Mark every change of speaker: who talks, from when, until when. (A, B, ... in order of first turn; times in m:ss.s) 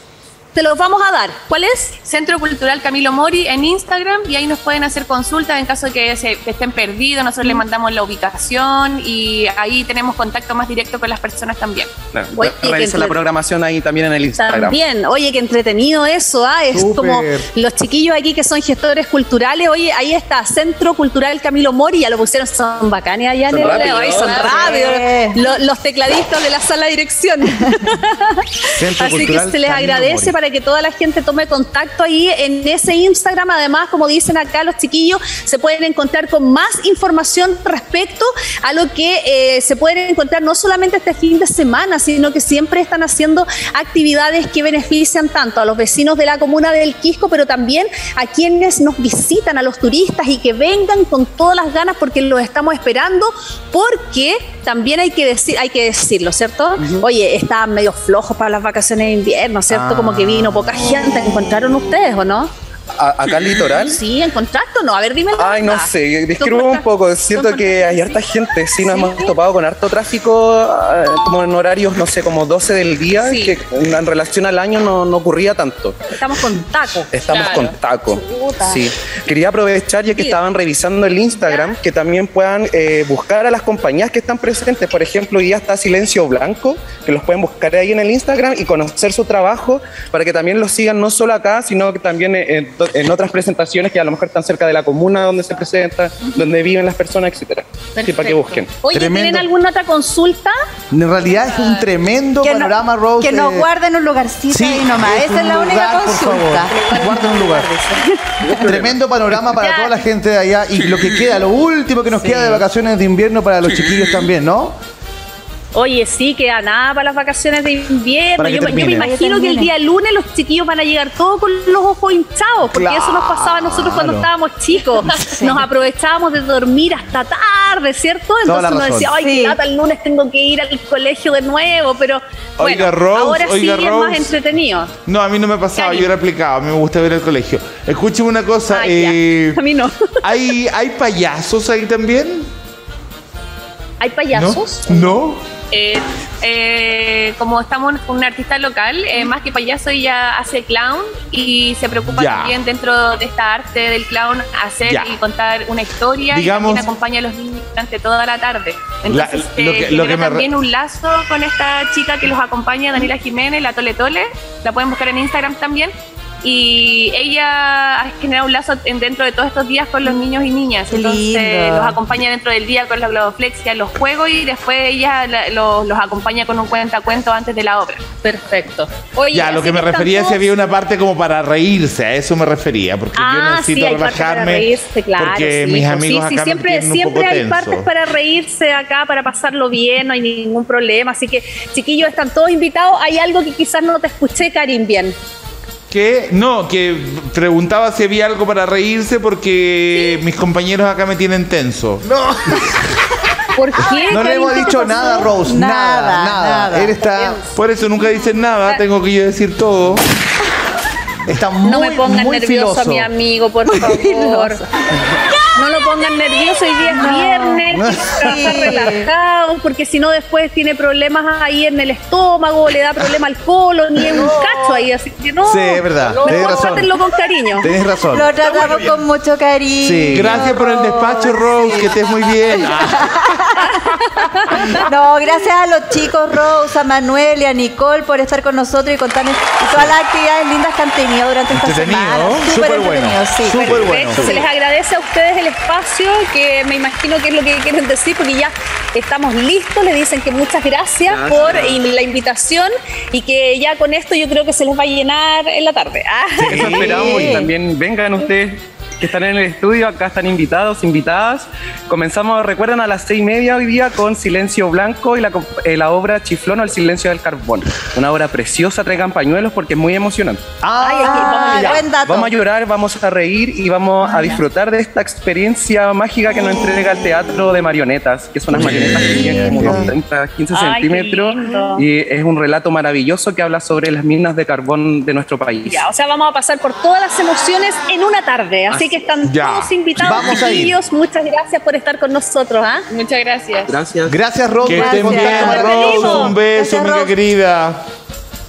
0:00.5-0:02.0 A
0:02.0-0:11.9 B
0:12.1-0:14.8 C
0:12.4-0:13.2 A
0:14.4-1:02.5 A
0:16.7-0:17.5 D
0:23.5-0:24.6 C
0:23.6-0:24.9 B
0:24.4-0:25.4 E
0:28.7-0:30.4 D
0:59.7-1:00.7 D
1:02.9-1:04.0 C
1:03.7-1:08.2 A
1:05.4-1:16.0 C
1:08.8-1:09.4 A
1:13.2-1:13.6 A
1:16.1-1:17.1 A
1:17.1-1:38.7 C
1:17.3-1:17.7 B
1:18.1-1:18.8 A
1:20.1-1:20.4 A
1:21.4-1:21.7 A
1:38.0-1:40.5 A
1:38.9-1:39.5 D
1:40.9-1:43.7 D
1:41.2-1:41.9 B
1:42.4-1:47.1 E
1:44.5-1:47.7 D
1:46.8-1:48.3 A
1:48.4-1:48.9 C
1:48.5-1:54.8 D
1:49.6-1:50.0 A
1:55.7-2:14.9 A
1:58.4-1:59.1 D
1:58.7-1:59.7 E
2:02.7-2:04.3 D
2:05.4-2:05.6 E
2:08.4-2:09.1 D
2:09.1-2:09.6 E
2:12.6-2:14.4 F
2:15.0-2:19.6 F
2:18.7-2:20.2 A
2:20.2-2:22.5 F
2:24.0-2:25.1 A
2:24.3-2:25.4 F
2:25.7-2:45.9 B
2:32.1-2:32.5 F
2:34.8-2:35.1 F
2:36.3-2:36.8 F
2:39.1-2:40.5 F
2:46.4-2:58.1 B
2:50.9-2:52.0 E
2:58.2-3:00.5 A
2:59.3-3:07.9 F
3:03.1-3:15.2 A
3:15.9-3:22.0 F
3:19.9-3:20.2 A
3:22.0-3:22.6 D
3:23.6-3:25.3 A
3:24.0-3:27.4 D
3:25.4-3:26.9 E
3:27.0-3:27.5 A
3:27.5-3:30.0 F
3:31.3-3:33.1 D
3:31.6-3:34.6 A
3:33.7-3:34.6 E
3:35.5-3:47.7 A
3:36.9-3:37.6 E
3:37.7-3:38.5 D
3:38.2-3:39.1 E
3:45.4-3:46.9 D
3:47.6-3:48.3 D
3:48.1-3:53.8 E
3:49.8-3:50.4 D
3:50.1-3:53.3 F
3:54.2-3:54.8 A
3:54.4-4:03.9 E
4:01.5-4:02.5 F
4:02.5-4:04.3 D
4:03.6-4:17.3 A
4:04.1-4:04.4 F
4:11.0-4:11.8 C
4:16.5-4:30.4 C
4:16.7-4:17.5 E
4:30.6-4:31.8 D
4:30.8-4:31.9 A
4:31.0-4:32.3 E
4:32.0-4:45.9 C
4:38.5-4:39.9 D
4:38.9-4:39.9 E
4:40.5-4:41.8 A
4:45.6-4:52.8 A
4:48.7-4:49.1 C
4:49.2-4:49.8 F
4:50.0-4:50.7 D
4:52.9-4:53.7 B
4:53.7-4:54.2 C
4:54.1-4:56.3 D
4:54.7-4:57.1 E
4:54.7-4:57.8 F
4:55.3-4:56.2 A